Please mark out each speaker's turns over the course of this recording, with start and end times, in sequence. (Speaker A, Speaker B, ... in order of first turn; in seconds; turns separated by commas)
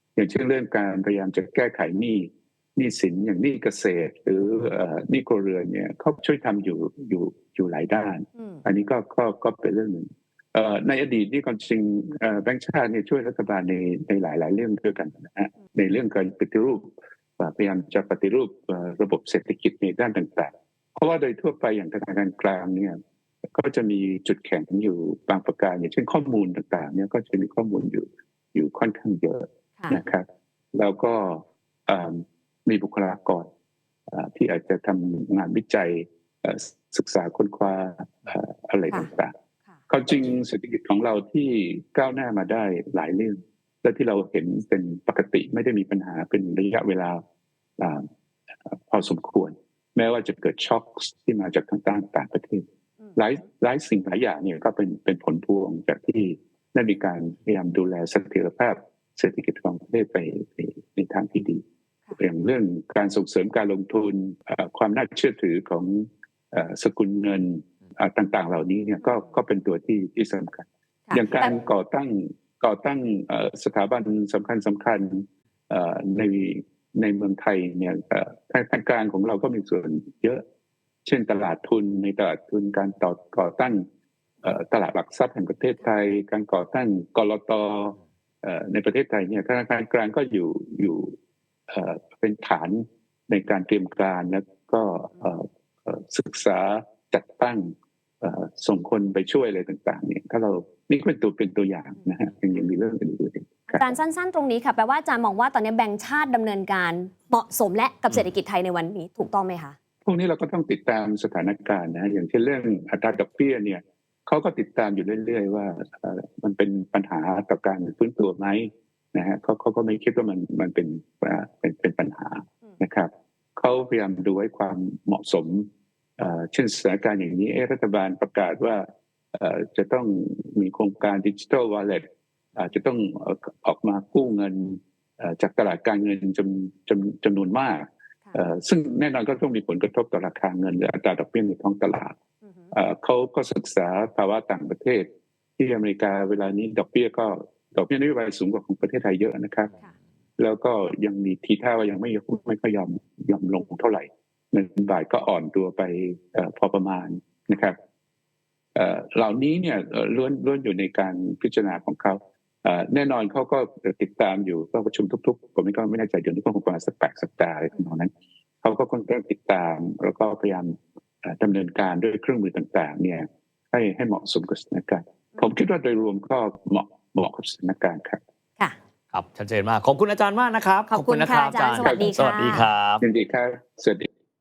Speaker A: 0.2-23.0, Speaker A: 23.5-33.5, Speaker A: 34.1-39.3, Speaker A: 39.9-47.2, Speaker A: 47.8-48.1, Speaker A: 48.6-52.6, Speaker A: 53.2-61.6, Speaker A: 62.2-80.4, Speaker B: 71.1-71.5, Speaker A: 81.0-83.8, Speaker A: 84.4-91.2, Speaker A: 91.7-103.9, Speaker B: 103.7-109.8, Speaker A: 110.1-132.0, Speaker A: 132.6-142.2, Speaker B: 142.4-142.7, Speaker A: 142.7-145.1, Speaker A: 145.6-149.8, Speaker A: 150.4-157.8, Speaker A: 158.8-168.1, Speaker A: 168.6-178.2, Speaker C: 179.1-183.0, Speaker B: 180.9-182.7, Speaker A: 181.8-182.1, Speaker A: 183.0-184.1